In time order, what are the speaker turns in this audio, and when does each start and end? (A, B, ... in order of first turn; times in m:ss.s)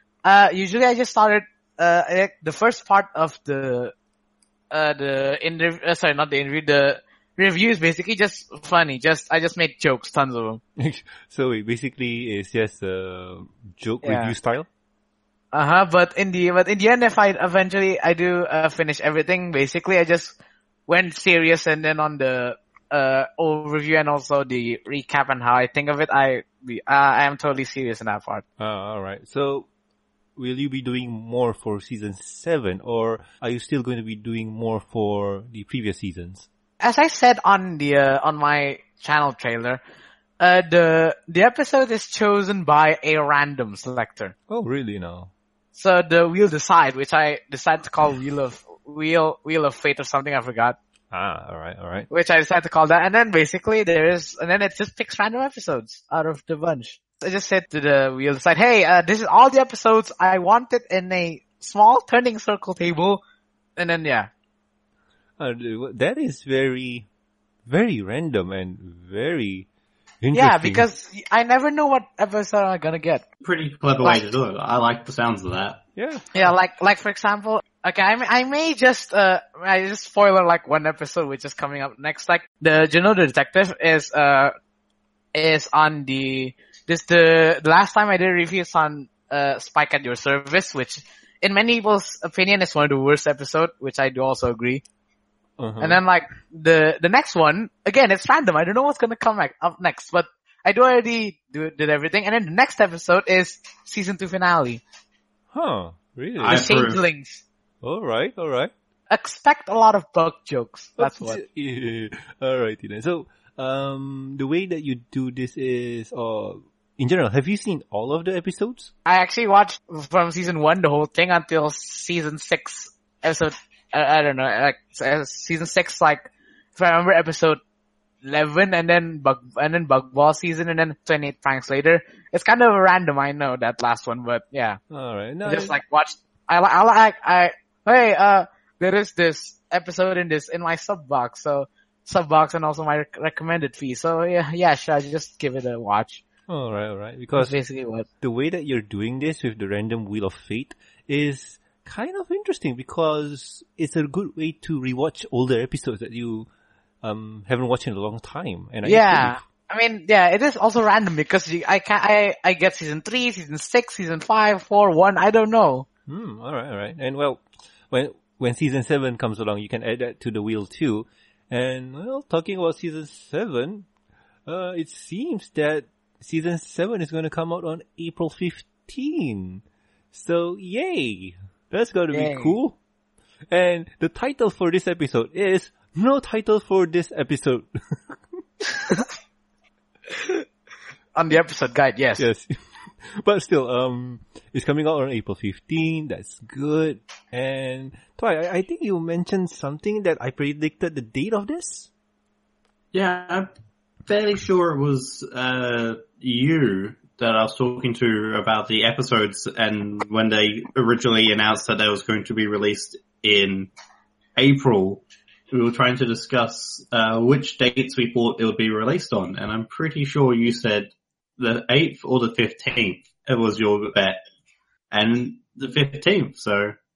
0:00.2-0:03.9 A
0:04.7-0:10.6 A
0:10.8-0:14.7 B
0:14.0-0:14.3 A
0:15.5-0:20.3 A
0:20.9-0:28.4 A
0:28.6-0:29.7 B
0:30.4-0:36.5 B
0:36.8-0:39.8 A
0:40.4-0:44.3 A
0:44.5-0:45.3 B
0:45.7-0:50.8 A
0:51.1-0:52.1 B
0:52.1-1:03.2 A
1:03.8-1:04.3 A
1:05.4-1:07.1 B
1:07.6-1:09.7 B
1:10.2-1:10.8 B
1:10.3-1:13.2 A
1:13.4-1:15.8 C
1:16.0-1:16.3 B
1:16.3-1:24.5 A
1:25.3-1:34.8 A
1:35.6-1:36.0 B
1:35.8-1:44.8 A
1:45.5-1:47.0 B
1:46.4-1:47.0 C
1:46.4-1:47.4 A
1:47.8-1:48.7 B
1:49.1-1:51.4 A
1:51.0-1:58.9 B
1:59.0-2:07.6 A
2:08.2-2:14.8 A
2:14.9-2:15.8 B
2:15.4-2:26.2 A
2:26.5-2:27.6 B
2:27.3-2:28.1 A
2:28.2-2:36.5 B
2:37.0-2:39.4 B
2:38.8-2:45.8 A
2:46.1-2:53.9 B
2:54.4-3:02.8 B
3:02.1-3:02.6 A
3:03.5-3:08.4 B
3:10.2-3:10.4 A
3:11.1-3:12.2 A
3:12.2-3:21.9 B
3:22.9-3:23.5 C
3:24.0-3:33.7 C
3:34.4-3:44.2 C
3:44.9-3:46.8 C